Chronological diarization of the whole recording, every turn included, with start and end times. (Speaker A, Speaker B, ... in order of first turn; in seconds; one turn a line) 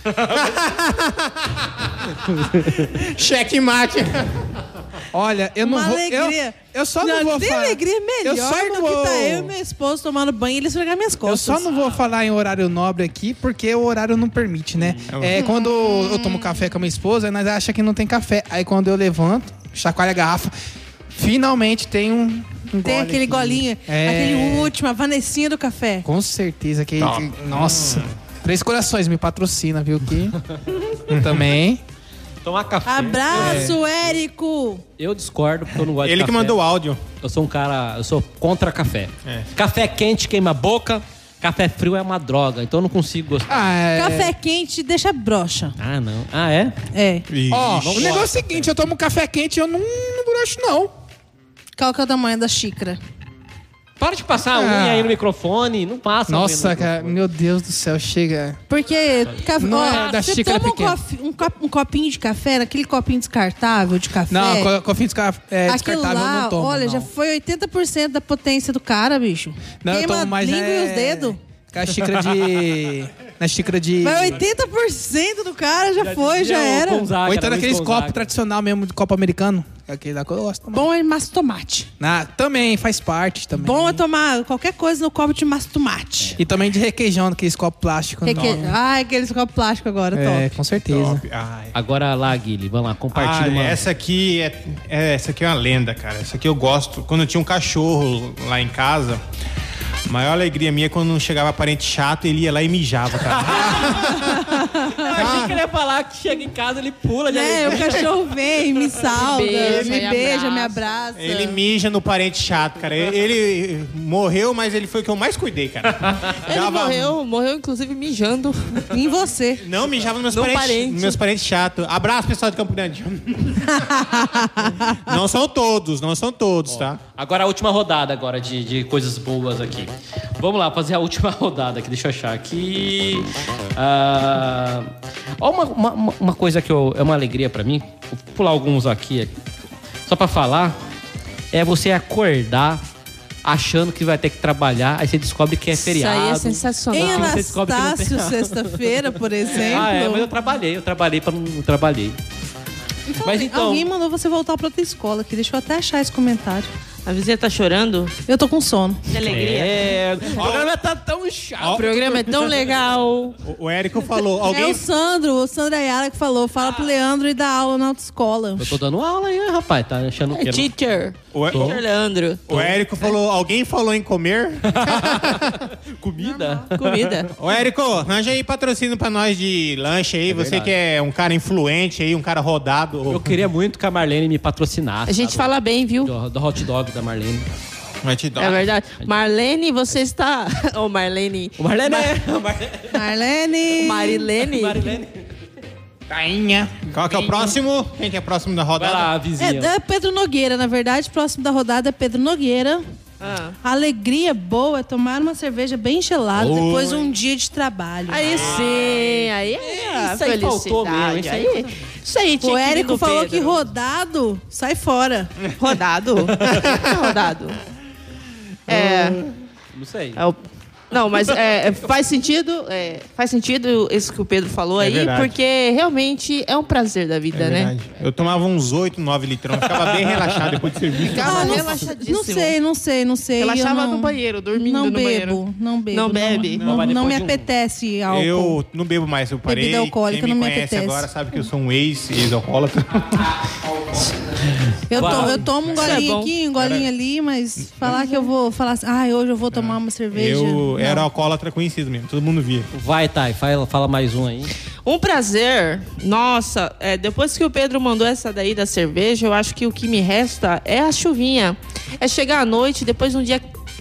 Speaker A: 0.2-4.4
Speaker B: 5.1-9.6
Speaker C: 5.6-11.7
Speaker B: 11.2-20.5
Speaker A: 15.1-15.4
Speaker B: 21.1-24.7
Speaker C: 22.8-26.1
Speaker B: 26.0-30.4
Speaker A: 27.0-28.1
Speaker A: 31.1-31.4
Speaker B: 31.1-31.8
Speaker D: 32.4-33.8
Speaker C: 32.9-34.8
Speaker B: 33.3-33.8
Speaker D: 35.0-36.6
Speaker A: 35.9-37.0
Speaker D: 37.2-43.7
Speaker B: 43.5-44.3
Speaker C: 43.9-45.7
Speaker D: 45.8-46.8
Speaker C: 46.9-47.2
Speaker A: 47.3-48.2
Speaker B: 47.5-50.9
Speaker D: 47.6-48.8
Speaker C: 51.8-53.0
Speaker D: 54.0-57.2
Speaker B: 54.5-55.2
Speaker B: 56.3-58.6
Speaker C: 58.7-64.7
Speaker D: 59.4-60.1
Speaker B: 59.6-61.0
Speaker B: 64.3-67.1
Speaker C: 65.7-71.4
Speaker B: 69.8-74.4
Speaker C: 74.0-77.1
Speaker D: 76.0-78.3
Speaker B: 77.2-80.9
Speaker C: 80.7-81.9
Speaker B: 82.0-84.0
Speaker C: 83.5-86.4
Speaker B: 86.4-88.7
Speaker C: 88.2-90.5
Speaker A: 88.3-88.6
Speaker B: 90.1-91.2
Speaker A: 90.8-91.7
Speaker D: 91.7-93.8
Speaker A: 93.1-99.2
Speaker A: 100.1-105.6
Speaker D: 103.3-104.1
Speaker C: 104.0-105.2
Speaker D: 104.9-108.1
Speaker C: 107.2-111.6
Speaker A: 107.7-108.1
Speaker E: 109.1-110.8
Speaker A: 109.5-110.2
Speaker A: 111.2-117.2
Speaker E: 116.4-118.9
Speaker C: 118.9-119.6
Speaker A: 119.6-127.0
Speaker E: 120.3-121.2
Speaker C: 123.7-125.0
Speaker D: 126.7-139.3
Speaker D: 140.1-140.8
Speaker D: 141.5-142.8
Speaker D: 143.4-152.2
Speaker E: 145.7-147.4
Speaker C: 146.9-150.3
Speaker C: 153.1-156.7
Speaker D: 153.2-153.9
Speaker E: 157.1-158.1
Speaker C: 158.3-159.0
Speaker E: 159.1-159.9
Speaker D: 159.2-162.7
Speaker A: 160.3-160.7
Speaker A: 161.6-161.9
Speaker E: 161.7-163.4
Speaker A: 163.4-164.8
Speaker C: 164.4-168.8
Speaker D: 168.6-170.7
Speaker E: 170.3-172.4
Speaker A: 171.3-171.8
Speaker D: 171.5-171.8
Speaker A: 172.5-175.7
Speaker D: 172.5-172.8
Speaker D: 174.7-177.3
Speaker C: 176.2-176.7
Speaker E: 176.7-177.3
Speaker A: 177.3-183.4
Speaker D: 180.3-180.7
Speaker D: 183.1-185.5
Speaker E: 185.1-186.1
Speaker D: 186.0-187.4
Speaker A: 188.0-188.7
Speaker E: 188.4-192.1
Speaker D: 191.6-193.0
Speaker C: 192.9-194.2
Speaker E: 193.7-195.0
Speaker D: 194.4-195.3
Speaker B: 196.1-197.2
Speaker A: 196.8-199.1
Speaker D: 198.8-199.7
Speaker C: 199.4-202.8
Speaker E: 203.2-203.6
Speaker C: 203.6-208.3
Speaker D: 206.4-206.9
Speaker E: 208.1-213.6
Speaker D: 208.2-211.7
Speaker A: 208.2-208.8
Speaker C: 212.4-215.3
Speaker E: 215.6-217.6
Speaker D: 216.4-216.7
Speaker A: 218.7-219.2
Speaker E: 218.7-219.2
Speaker D: 219.7-220.2
Speaker E: 220.9-227.7
Speaker A: 224.8-225.3
Speaker A: 227.3-231.7
Speaker D: 229.9-230.6
Speaker E: 231.0-232.6
Speaker C: 231.2-238.6
Speaker E: 233.4-236.7
Speaker A: 236.6-236.8
Speaker D: 236.6-237.5
Speaker A: 238.1-243.3
Speaker C: 239.4-241.1
Speaker C: 244.9-251.1
Speaker D: 244.9-245.5
Speaker A: 244.9-246.0
Speaker E: 245.0-246.3
Speaker A: 246.5-246.9
Speaker A: 249.5-252.7
Speaker D: 252.7-254.5
Speaker E: 254.8-263.5